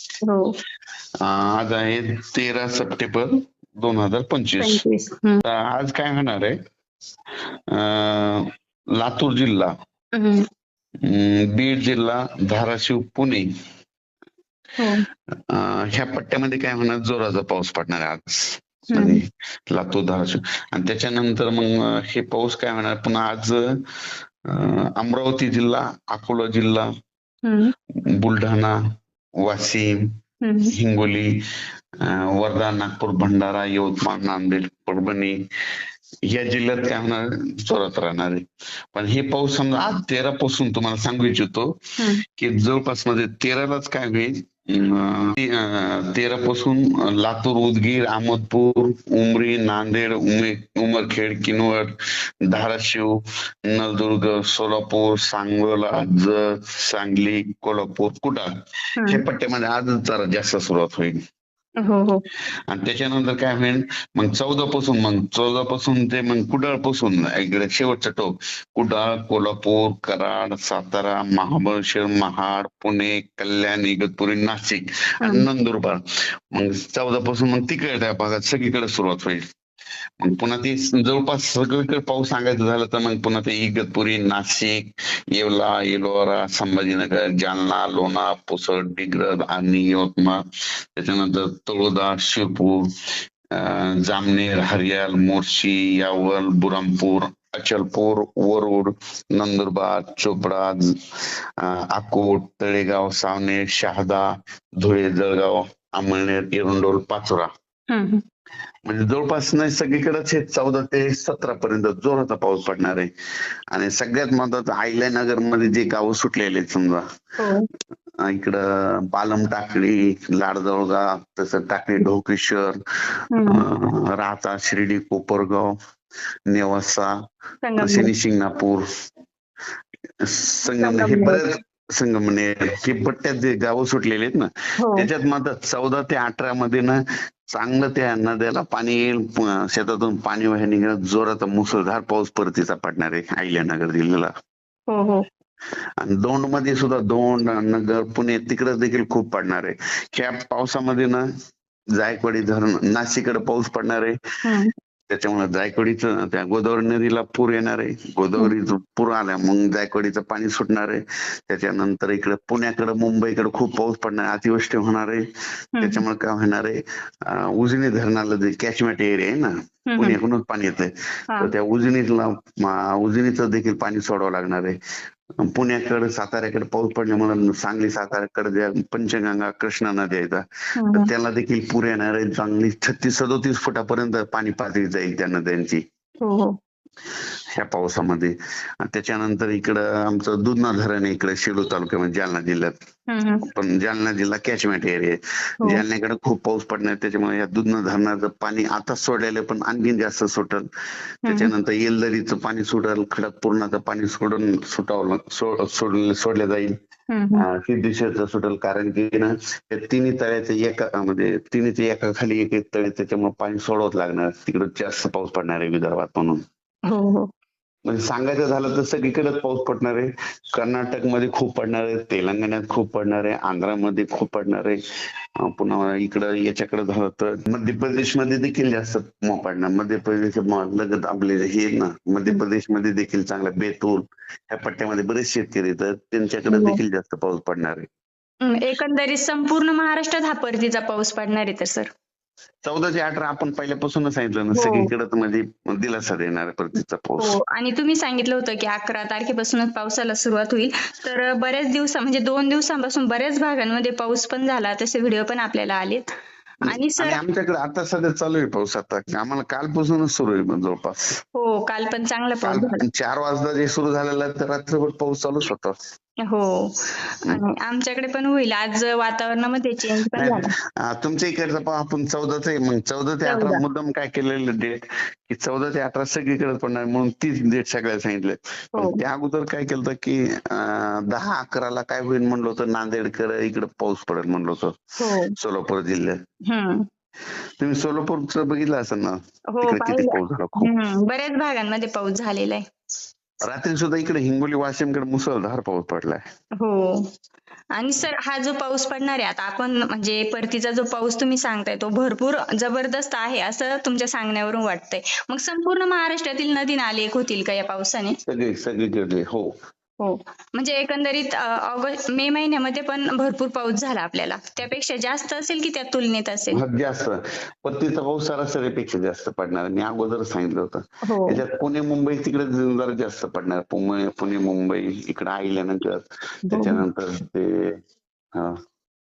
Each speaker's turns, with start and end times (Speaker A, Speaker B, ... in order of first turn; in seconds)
Speaker A: 0.2-0.6, 4.6-5.4, 10.2-10.4, 14.8-15.0, 18.9-19.2, 27.4-27.7, 30.4-30.7, 59.0-59.2, 61.8-62.2, 107.9-108.2, 117.4-117.7, 123.3-123.6, 127.6-128.1, 130.8-131.4, 134.8-135.1, 144.9-145.2, 154.4-154.7, 165.8-166.0, 169.9-170.2, 180.8-181.1, 186.2-186.6, 193.1-193.4, 201.3-201.5, 207.1-207.5, 216.9-217.3, 236.5-236.8, 238.4-241.9, 244.5-244.9, 247.2-256.1, 256.7-257.2, 261.4-262.8, 266.2-270.5, 273.3-273.6, 285.0-285.3, 286.5-286.9, 289.5-292.6, 296.6-297.1, 297.8-308.2, 310.0-316.6, 321.1-321.4, 326.5-326.8
Speaker B: 1.2-4.8, 5.4-6.6, 7.7-8.5, 9.0-9.7, 11.1-13.5, 15.5-23.8, 24.5-26.9, 28.2-28.8, 29.4-30.1, 30.7-31.4, 32.0-35.4, 36.3-41.8, 42.4-51.9, 52.5-58.5, 59.0-61.2, 62.7-76.0, 76.5-79.5, 80.2-90.4, 91.0-92.9, 93.5-100.8, 101.6-104.2, 104.8-107.5, 108.9-113.1, 113.7-117.0, 118.3-122.8, 123.5-125.7, 126.5-127.1, 127.8-128.8, 130.2-137.0, 137.5-144.3, 146.0-151.2, 152.0-154.2, 155.1-165.2, 165.8-174.8, 175.4-185.8, 187.6-192.8, 193.5-200.7, 201.3-206.7, 207.3-216.4, 217.9-224.8, 225.4-237.9, 242.7-247.3, 256.7-261.2, 262.4-265.8, 270.1-284.8, 285.4-286.2, 287.6-290.7, 293.4-296.2, 308.3-309.5, 316.5-327.8